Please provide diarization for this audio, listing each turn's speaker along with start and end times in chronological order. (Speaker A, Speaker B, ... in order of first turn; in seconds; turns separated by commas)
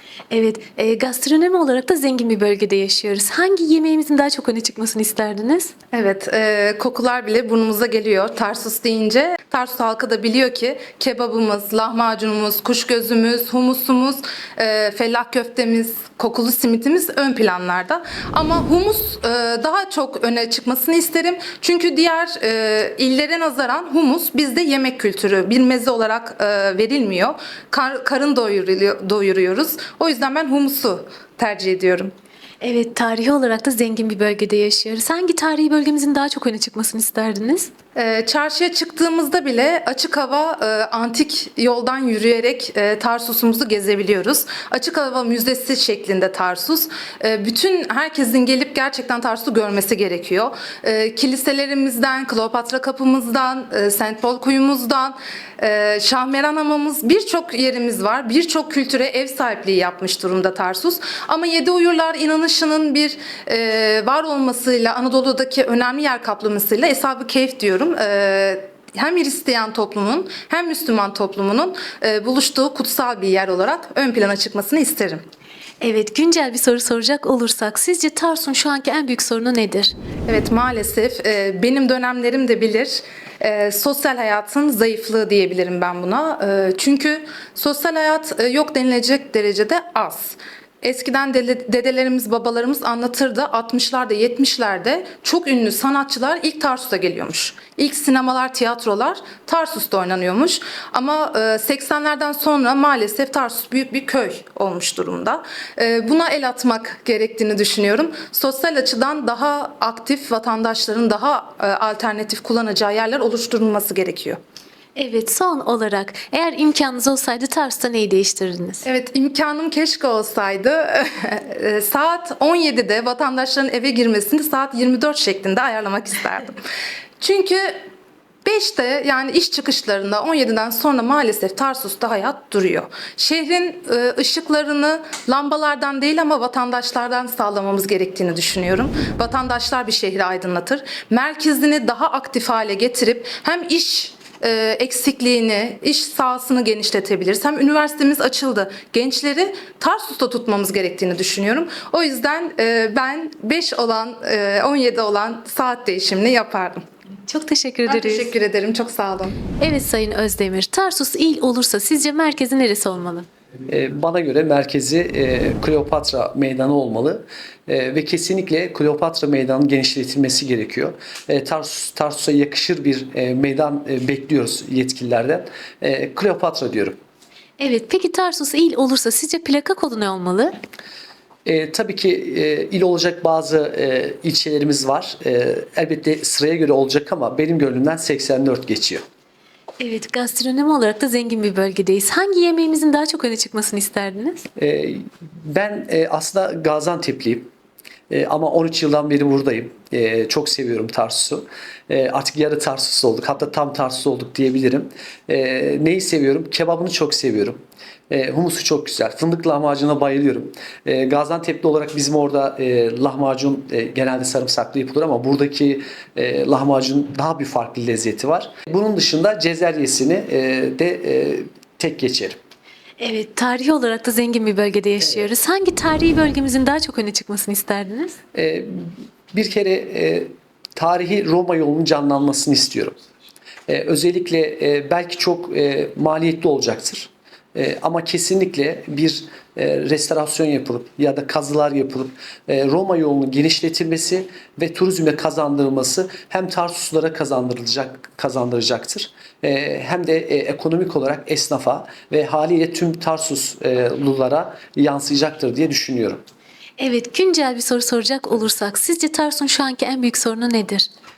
Speaker A: 0.3-5.7, Speaker B: 5.9-32.1, Speaker A: 32.6-37.7, Speaker B: 37.9-75.2, Speaker A: 75.8-79.9, Speaker B: 80.3-114.4, Speaker A: 115.0-118.8, Speaker B: 118.8-126.6, Speaker B: 127.2-127.6, Speaker B: 128.4-156.8, Speaker A: 157.3-158.3, Speaker B: 157.8-159.3, Speaker A: 159.6-163.3, Speaker C: 163.7-177.0, Speaker A: 177.6-180.5, Speaker C: 181.4-189.0, Speaker A: 189.8-194.4, Speaker C: 194.6-197.5, Speaker C: 198.1-222.4, Speaker A: 223.0-228.2, Speaker C: 228.3-228.7, Speaker C: 229.3-233.0, Speaker C: 233.7-256.2, Speaker A: 256.8-260.9